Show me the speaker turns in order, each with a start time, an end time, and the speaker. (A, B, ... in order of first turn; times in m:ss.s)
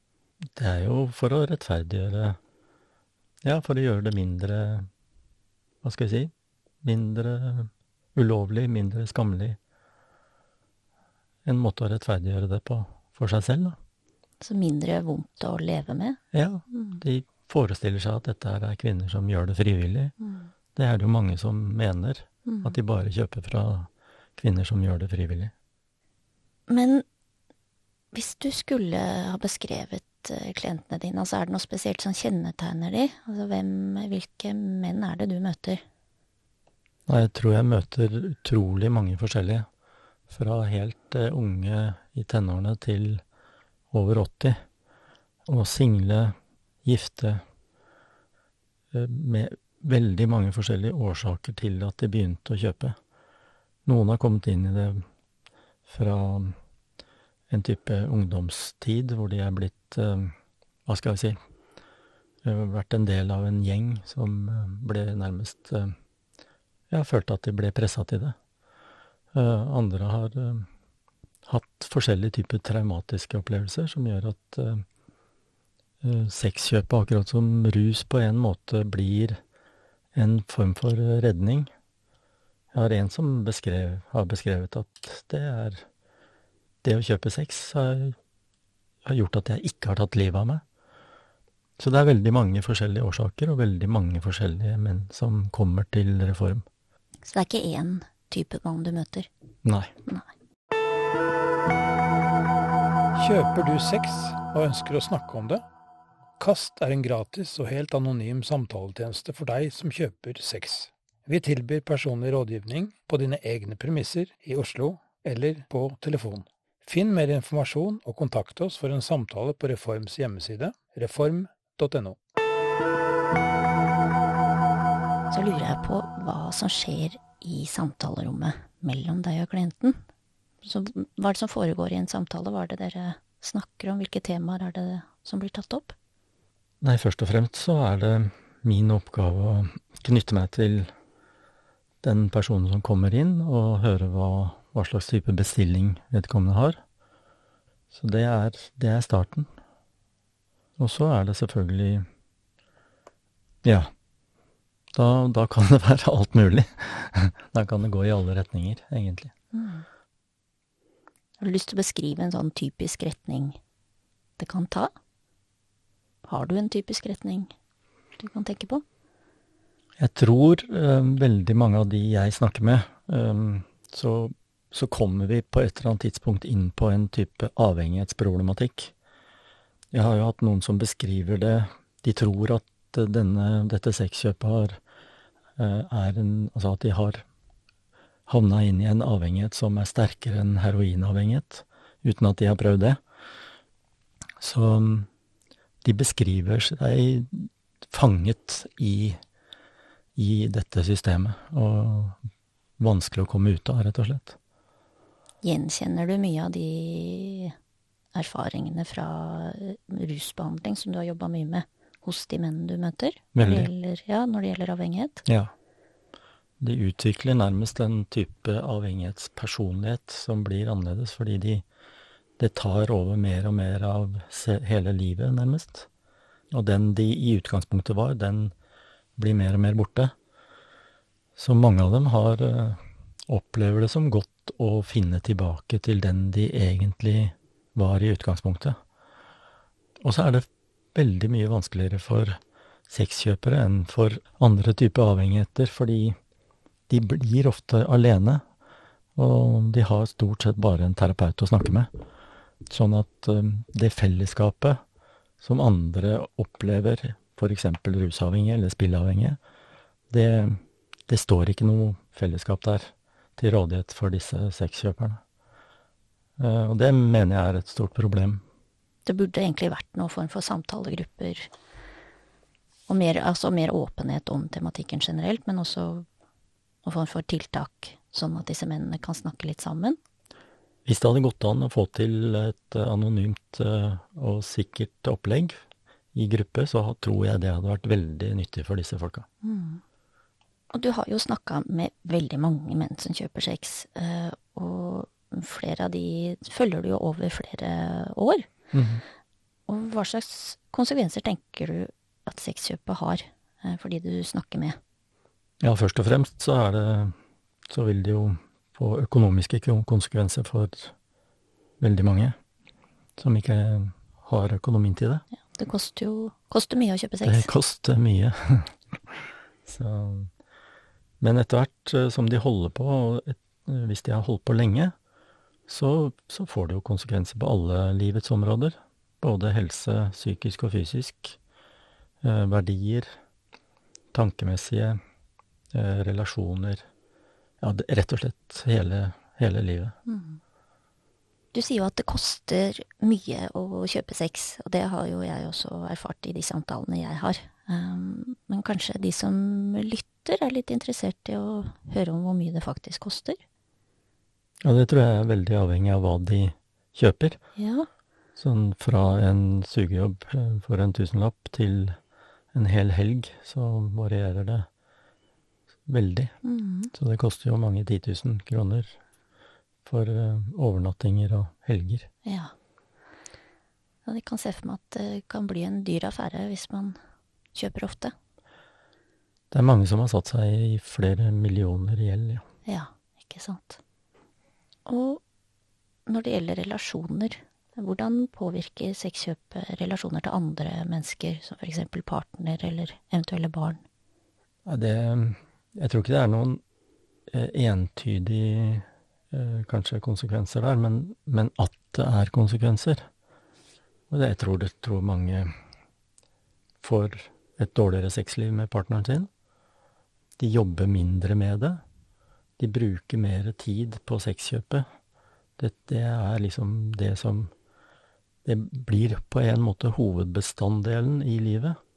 0:00.6-0:02.4 A
0:03.4-0:04.9 A
0:05.8-0:06.3 A
0:06.8-0:09.6 A
0:11.4-0:13.8 A
0:14.4-0:16.2 B
0:16.3-0:20.1 A
0:16.7-0:17.0 B
0:20.2-0:20.5 B
0:20.8-0:25.5 A
0:22.5-0:22.8 B
0:26.7-0:27.0 B
0:28.1-0:35.8 B
0:37.1-0:39.7 A
0:40.3-0:43.2 A
0:43.9-0:44.6 A
0:45.5-0:47.4 A
0:48.9-0:53.0 A
0:53.9-0:55.0 A
0:55.9-0:56.6 A
0:57.5-1:00.4 A
1:00.9-1:01.4 A
1:02.4-1:05.9 A
1:06.9-1:08.4 A
1:09.3-1:10.7 A
1:11.5-1:14.8 A
1:16.0-1:19.4 A
1:20.2-1:21.7 A
1:22.7-1:25.9 A
1:26.8-1:28.2 A
1:29.1-1:30.6 A
1:31.8-1:36.6 A
1:37.3-1:39.3 B
1:39.6-1:39.9 A
1:43.2-1:45.6 C
1:46.4-2:02.2 C
2:05.3-2:10.0 B
2:10.6-2:16.0 B
2:16.8-2:20.9 A
2:22.0-2:26.8 A
2:27.9-2:29.5 A
2:30.8-2:32.0 A
2:33.6-2:33.9 A
2:35.0-2:39.3 A
2:39.5-2:39.9 B
2:41.4-2:43.6 B
2:44.4-2:44.9 B
2:46.3-2:47.5 B
2:48.2-2:48.8 B
2:50.0-2:58.9 A
2:59.9-3:04.8 A
3:05.6-3:07.2 A
3:08.3-3:13.0 A
3:14.4-3:15.1 A
3:15.8-3:19.2 A
3:20.2-3:22.2 A
3:22.8-3:24.4 A
3:25.4-3:27.5 B
3:28.2-3:35.2 B
3:33.4-3:33.7 A
3:35.3-3:35.5 A
3:36.6-3:41.6 A
3:42.4-3:45.9 A
3:46.5-3:48.5 A
3:49.2-3:50.1 A
3:51.4-3:58.8 A
4:00.0-4:06.2 A
4:06.9-4:08.4 A
4:09.2-4:11.9 A
4:12.7-4:14.8 A
4:15.4-4:19.4 A
4:20.1-4:25.2 A
4:26.4-4:28.4 A
4:29.1-4:31.5 B
4:32.9-4:36.0 B
4:36.8-4:40.0 B
4:40.8-4:45.6 A
4:46.1-4:49.3 A
4:49.4-4:49.8 B
4:50.7-4:58.5 B
4:58.7-4:59.0 A
4:59.7-5:04.8 B
5:05.6-5:07.2 A
5:07.7-5:10.9 A
5:11.8-5:12.4 A
5:13.2-5:15.2 A
5:15.6-5:17.5 B
5:17.2-5:18.8 A
5:19.7-5:20.3 A
5:21.2-5:24.9 A
5:25.7-5:31.4 A
5:32.2-5:33.2 A
5:34.1-5:35.0 A
5:35.7-5:36.8 A
5:37.6-5:40.0 A
5:40.1-5:40.4 B
5:41.5-5:53.4 B
5:54.6-5:57.4 A
5:57.6-5:57.9 B
5:58.4-6:02.0 A
6:02.5-6:04.7 A
6:05.9-6:06.4 A
6:06.4-6:06.9 B
6:06.9-6:09.0 A
6:09.9-6:12.1 A
6:12.2-6:12.5 B
6:14.0-6:17.0 B
6:17.5-6:18.1 B
6:19.5-6:22.4 A
6:22.7-6:23.8 B
6:24.9-6:25.2 B
6:26.1-6:33.8 B
6:34.7-6:36.6 A
6:37.3-6:43.1 A
6:44.1-6:45.5 A
6:46.8-6:49.3 A
6:50.4-6:51.8 A
6:52.6-6:54.8 A
6:55.6-6:57.5 A
6:58.4-7:01.8 A